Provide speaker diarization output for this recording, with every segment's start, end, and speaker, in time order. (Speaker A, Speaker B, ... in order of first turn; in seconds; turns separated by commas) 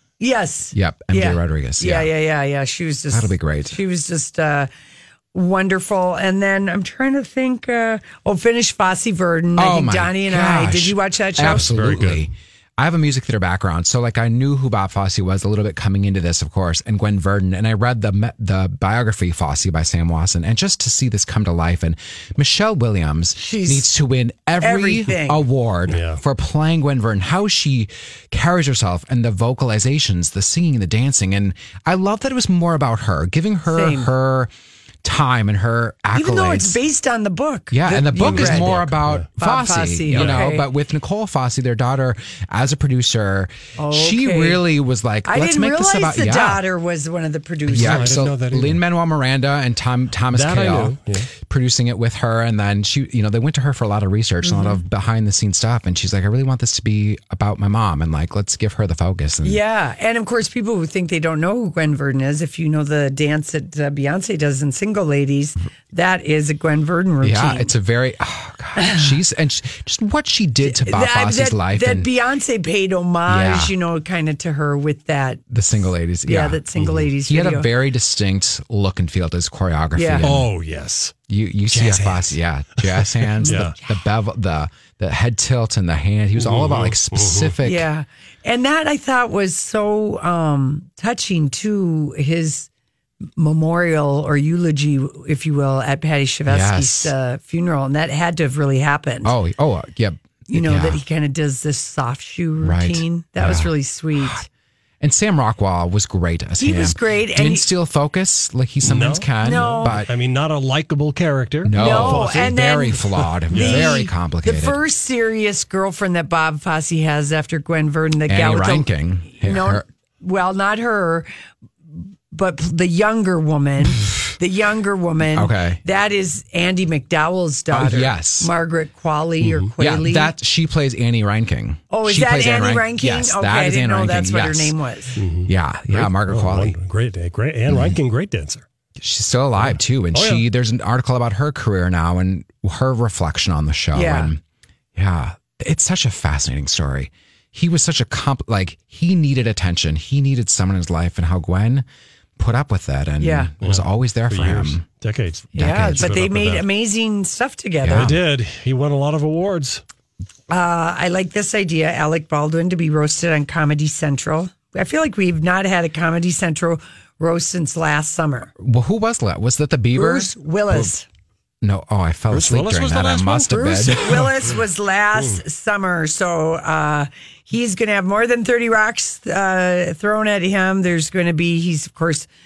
Speaker A: 0.2-4.7, Speaker B: 0.7-2.1, Speaker B: 3.1-3.8, Speaker A: 5.3-11.7, Speaker B: 9.6-34.5, Speaker C: 11.4-12.3, Speaker A: 23.4-23.9, Speaker A: 24.6-25.4, Speaker C: 25.9-26.2, Speaker A: 33.7-34.1, Speaker B: 35.0-36.8, Speaker A: 36.1-38.8, Speaker B: 37.7-46.6, Speaker C: 38.2-39.3, Speaker A: 39.4-40.7, Speaker C: 40.1-40.4, Speaker A: 43.8-44.6, Speaker A: 45.3-48.2, Speaker B: 47.7-59.6, Speaker C: 47.8-48.8, Speaker C: 50.3-51.3, Speaker A: 54.4-54.8, Speaker A: 59.4-67.7, Speaker B: 67.2-72.1, Speaker A: 68.8-69.1, Speaker A: 70.6-75.4, Speaker B: 73.3-73.7, Speaker B: 75.5-76.6, Speaker A: 76.2-77.7, Speaker C: 76.8-77.1, Speaker B: 77.2-80.5, Speaker A: 80.0-80.3, Speaker C: 80.2-81.2, Speaker B: 81.3-87.9, Speaker C: 81.7-83.8, Speaker A: 83.4-83.7, Speaker C: 86.4-87.6, Speaker A: 87.6-92.7, Speaker A: 93.4-99.3, Speaker B: 96.5-97.1, Speaker B: 99.2-101.0, Speaker A: 100.5-104.4, Speaker B: 102.6-104.5, Speaker B: 105.0-110.1, Speaker A: 106.6-107.7, Speaker C: 108.8-114.0, Speaker A: 109.4-110.0, Speaker B: 111.6-114.8, Speaker A: 111.8-113.0, Speaker A: 113.5-121.3, Speaker B: 118.3-119.8, Speaker A: 122.3-130.3, Speaker B: 125.3-125.8, Speaker B: 127.7-128.5, Speaker C: 129.4-129.7, Speaker B: 129.8-134.8, Speaker A: 131.9-135.2, Speaker C: 135.2-138.6, Speaker B: 135.5-136.8, Speaker B: 137.7-138.0, Speaker B: 139.0-144.4, Speaker C: 139.6-140.4, Speaker A: 143.9-144.3, Speaker B: 144.9-151.8, Speaker B: 152.4-154.8, Speaker A: 153.2-153.5, Speaker C: 153.6-156.7, Speaker B: 155.5-156.1, Speaker A: 155.6-158.2, Speaker B: 157.8-158.2, Speaker C: 157.9-159.8, Speaker A: 160.5-168.5, Speaker B: 168.6-170.9, Speaker A: 169.9-171.1, Speaker B: 171.6-174.3, Speaker C: 172.3-174.5, Speaker A: 173.7-182.3, Speaker C: 175.2-175.4